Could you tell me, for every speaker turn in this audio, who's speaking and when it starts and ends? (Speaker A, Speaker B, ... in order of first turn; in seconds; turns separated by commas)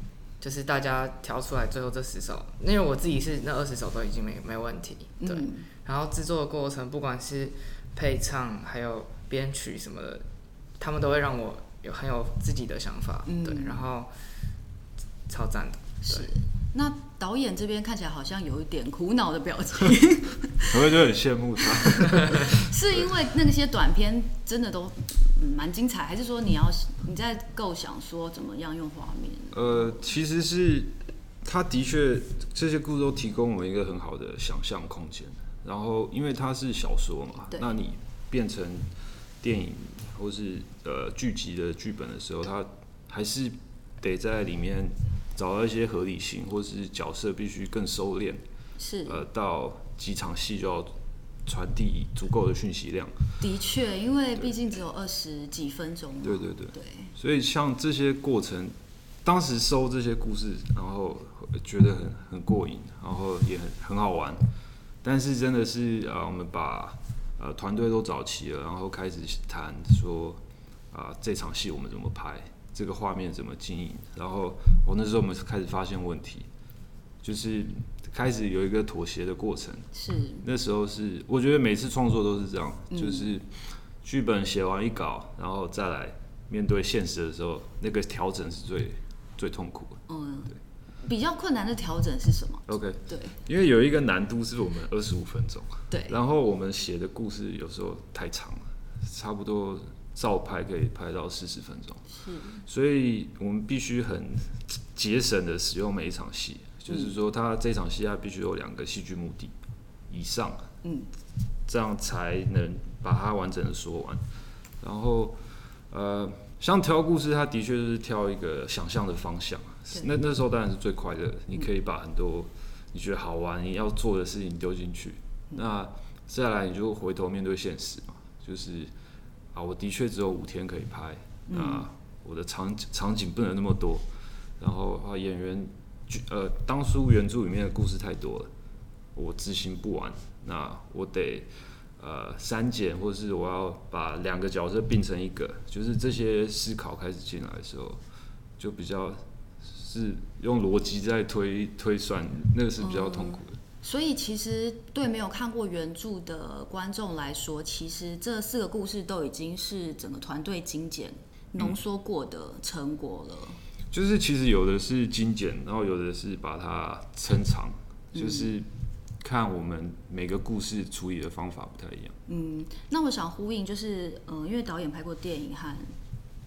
Speaker A: 0.4-10.2, Speaker B: 5.2-5.7, Speaker A: 10.8-14.1, Speaker B: 13.3-13.8, Speaker A: 15.3-16.3, Speaker B: 16.1-20.8, Speaker C: 20.7-23.1, Speaker B: 22.0-30.0, Speaker C: 29.5-48.4, Speaker B: 48.8-49.2, Speaker C: 49.1-53.1, Speaker B: 53.4-57.1, Speaker C: 56.2-64.4, Speaker C: 65.0-70.4, Speaker C: 70.9-76.5, Speaker C: 77.2-79.9, Speaker B: 80.0-80.5, Speaker C: 80.4-90.0, Speaker B: 82.9-83.3, Speaker B: 90.1-93.4, Speaker C: 92.7-102.0, Speaker B: 95.9-96.2, Speaker B: 102.1-102.7, Speaker C: 102.6-109.5, Speaker C: 110.1-110.7, Speaker B: 110.8-111.1, Speaker C: 111.7-114.2, Speaker C: 114.8-115.4, Speaker C: 115.9-128.9, Speaker C: 129.5-134.1, Speaker B: 131.5-131.9, Speaker C: 134.6-138.5, Speaker C: 139.2-148.0, Speaker C: 148.6-153.6, Speaker B: 152.8-163.6, Speaker C: 163.9-168.7, Speaker B: 168.1-168.5, Speaker C: 169.2-172.2, Speaker B: 172.3-175.9